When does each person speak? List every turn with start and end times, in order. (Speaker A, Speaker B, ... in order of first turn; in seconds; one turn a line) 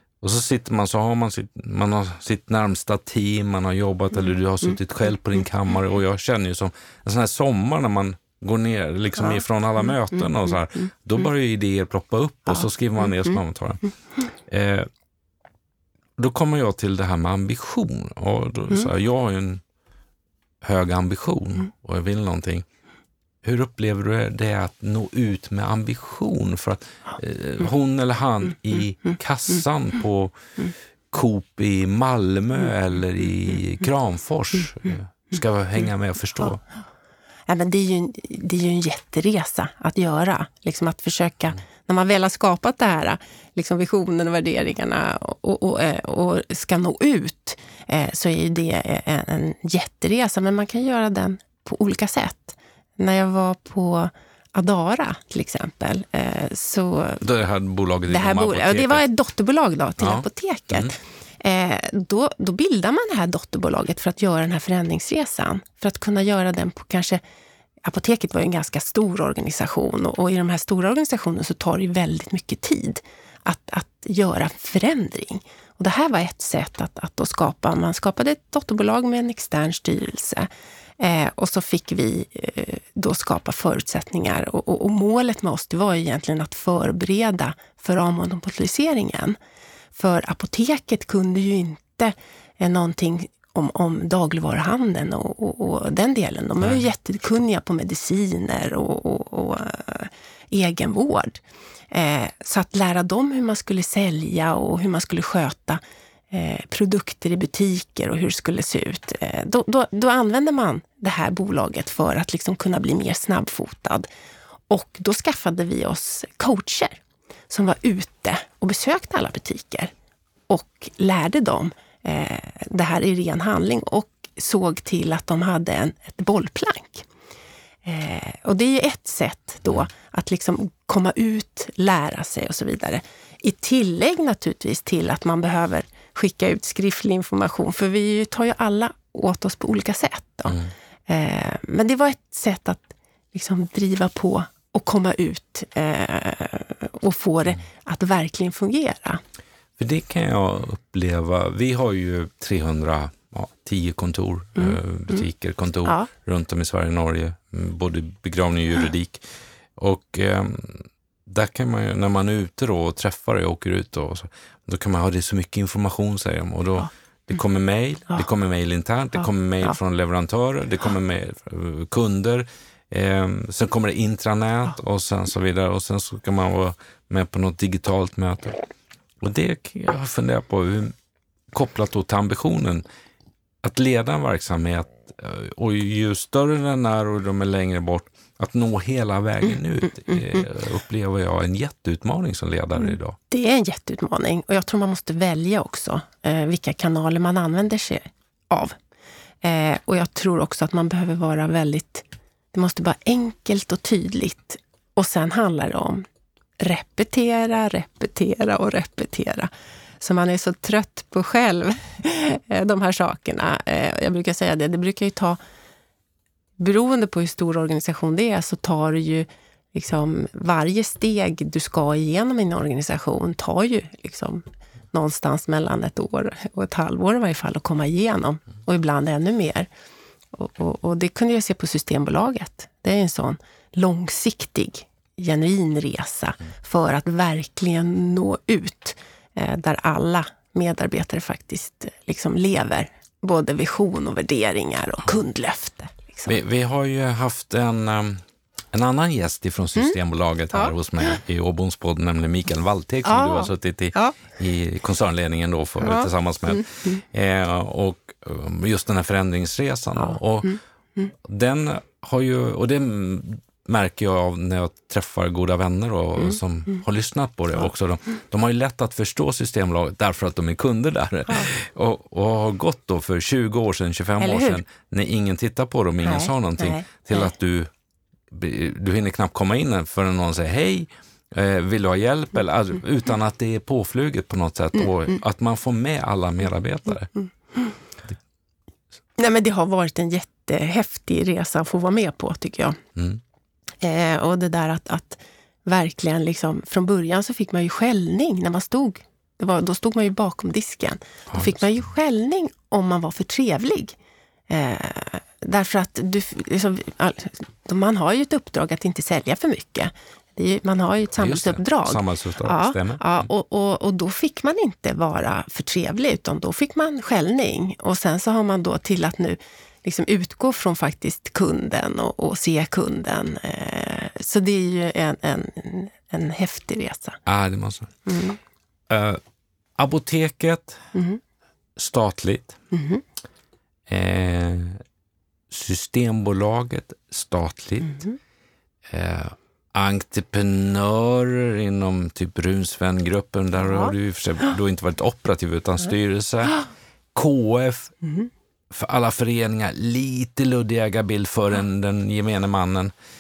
Speaker A: 0.2-13.8
Speaker A: 14.5-14.9
Speaker A: 16.2-19.6
Speaker A: 20.6-22.6
Speaker A: 23.4-30.4
Speaker A: 31.1-36.6
Speaker B: 37.5-57.2
Speaker A: 57.2-59.0
Speaker B: 58.1-67.2
Speaker A: 60.0-60.9
Speaker B: 67.8-89.4
Speaker B: 89.9-114.1
Speaker B: 114.7-119.9
Speaker B: 120.5-127.1
Speaker B: 127.8-140.6
Speaker B: 141.1-149.2
Speaker A: 149.8-159.2
Speaker B: 154.6-155.2
Speaker A: 159.8-178.6
Speaker A: 179.2-180.9
Speaker A: 181.5-182.8
Speaker A: 183.6-193.2
Speaker B: 190.1-190.4
Speaker B: 192.8-198.8
Speaker B: 199.4-206.1
Speaker B: 206.6-215.4
Speaker B: 216.6-229.7
Speaker B: 230.3-246.3
Speaker A: 246.3-260.6
Speaker B: 250.5-251.2
Speaker B: 253.1-254.2
Speaker B: 255.8-257.0
Speaker B: 260.4-261.1
Speaker A: 261.1-277.7
Speaker B: 274.2-274.6
Speaker B: 276.0-277.3
Speaker A: 278.3-287.1
Speaker B: 289.2-292.8
Speaker B: 293.8-304.0
Speaker A: 301.3-301.6
Speaker B: 304.5-327.2
Speaker A: 311.2-313.0
Speaker A: 327.3-327.9
Speaker B: 328.1-328.4
Speaker A: 328.9-329.2
Speaker A: 329.8-330.8
Speaker B: 330.9-331.2
Speaker A: 331.8-332.6
Speaker B: 332.7-333.0
Speaker A: 333.9-334.8
Speaker A: 335.5-338.0
Speaker A: 338.9-346.6
Speaker A: 347.1-347.9
Speaker B: 348.0-348.3
Speaker A: 348.7-352.9